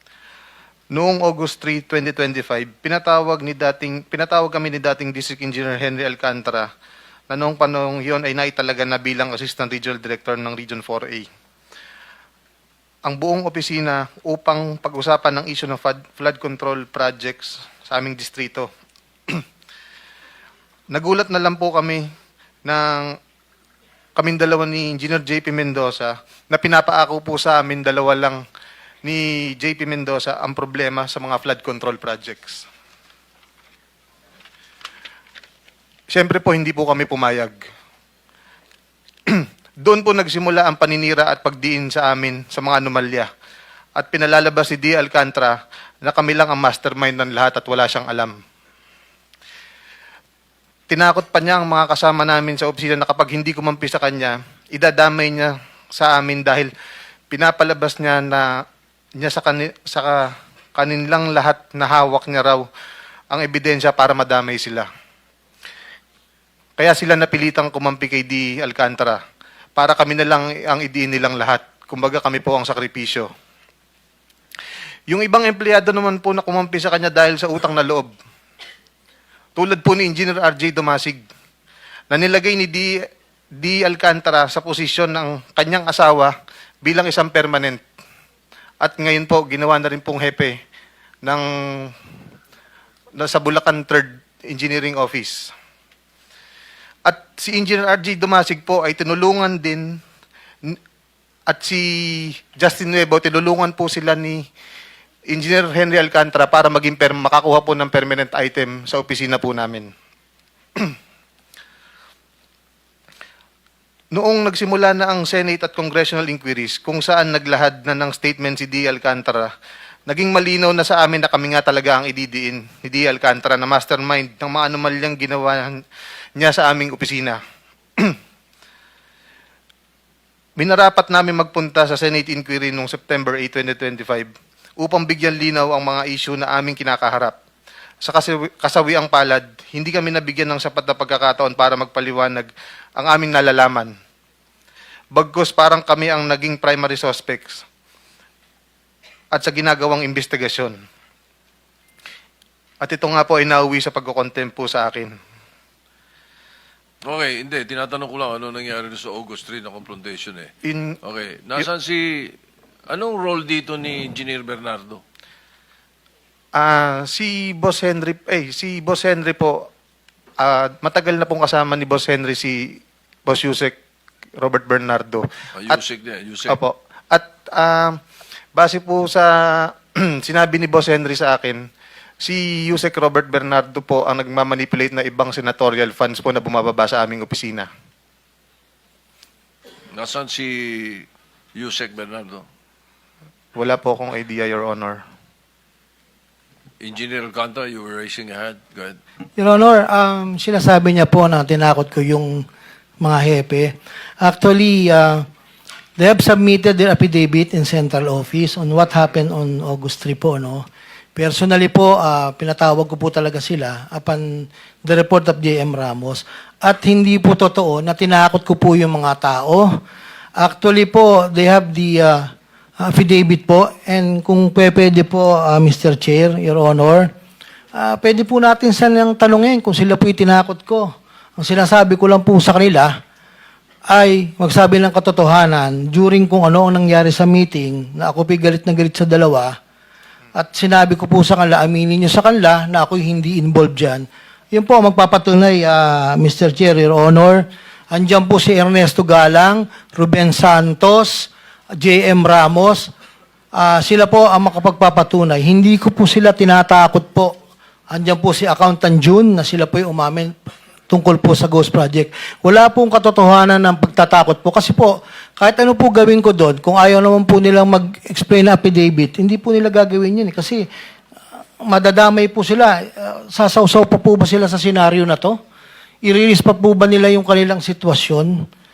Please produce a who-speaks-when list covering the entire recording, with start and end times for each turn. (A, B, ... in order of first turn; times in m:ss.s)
0:00.9-0:06.6 A
0:07.3-0:11.3 A
0:13.0-0:18.7 A
0:20.9-0:22.0 A
0:22.6-0:23.1 A
0:24.2-0:28.4 A
0:29.0-0:32.6 A
0:36.1-0:37.6 A
0:39.3-0:43.3 A
0:44.0-0:48.4 A
0:50.9-0:56.7 A
0:57.3-0:58.6 A
0:59.2-1:02.6 A
1:03.3-1:04.9 A
1:06.8-1:09.2 A
1:09.8-1:13.3 A
1:15.1-1:18.1 A
1:19.6-1:21.2 A
1:22.1-1:22.9 A
1:23.6-1:27.8 A
1:28.8-1:30.5 A
1:31.2-1:31.9 A
1:33.1-1:35.5 A
1:37.0-1:40.0 A
1:41.5-1:44.4 A
1:45.3-1:49.9 A
1:54.1-1:59.5 A
2:00.1-2:05.8 A
2:06.4-2:07.4 A
2:10.6-2:17.4 A
2:18.0-2:23.9 A
2:25.1-2:27.6 A
2:29.3-2:30.8 A
2:32.8-2:35.1 A
2:37.0-2:40.5 B
2:40.6-2:41.0 A
2:41.0-2:42.3 B
2:42.9-2:45.0 B
2:46.5-2:49.6 A
2:50.4-2:53.8 A
2:54.4-2:55.8 A
2:55.5-2:56.6 B
2:56.5-2:58.0 A
2:58.5-3:01.6 A
3:02.2-3:07.7 A
3:09.9-3:12.4 B
3:13.5-3:15.0 A
3:16.8-3:19.0 B
3:19.4-3:22.4 C
3:23.0-3:25.2 C
3:26.0-3:30.6 C
3:31.2-3:39.7 C
3:40.4-3:42.3 C
3:42.8-3:47.1 C
3:47.7-3:52.9 C
3:53.9-3:59.5 C
4:00.3-4:12.9 C
4:13.5-4:17.3 C
4:17.9-4:20.3 C
4:20.9-4:30.6 C
4:31.6-4:35.4 C
4:36.0-4:38.4 C